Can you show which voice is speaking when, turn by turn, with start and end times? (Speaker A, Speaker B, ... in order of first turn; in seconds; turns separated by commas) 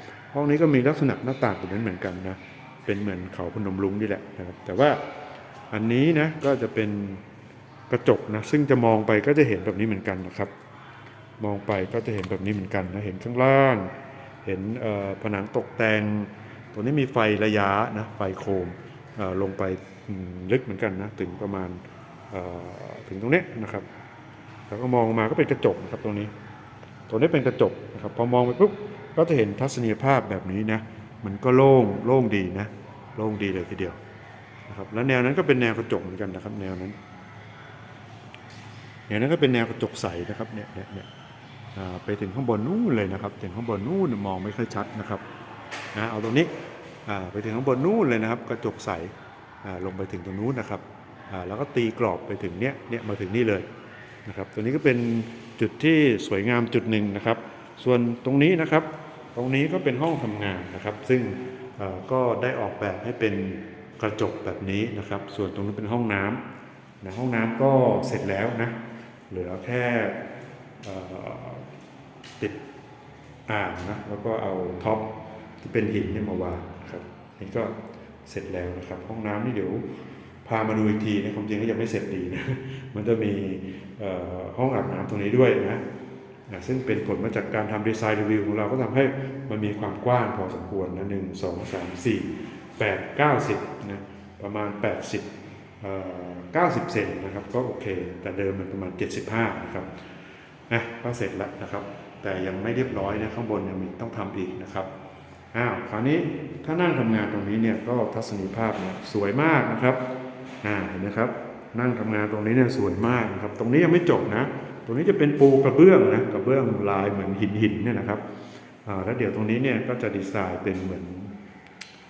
Speaker A: 0.3-5.0, Speaker A: 5.7-7.2, Speaker A: 7.9-10.5, Speaker A: 11.4-13.9, Speaker A: 14.4-21.8, Speaker A: 22.3-23.9, Speaker A: 24.7-26.3, Speaker A: 27.1-34.0, Speaker A: 34.7-37.0, Speaker A: 39.1-41.1, Speaker A: 41.8-45.2, Speaker A: 45.9-46.5, Speaker A: 47.1-49.1, Speaker A: 49.6-53.7, Speaker A: 54.3-66.4, Speaker A: 67.0-68.8, Speaker A: 69.3-70.2, Speaker A: 70.8-71.7, Speaker A: 73.5-77.7, Speaker A: 78.3-79.9, Speaker A: 80.5-85.8, Speaker A: 86.5-95.3, Speaker A: 95.8-99.9, Speaker A: 100.7-104.9, Speaker A: 105.5-110.0, Speaker A: 110.6-118.2, Speaker A: 118.8-121.3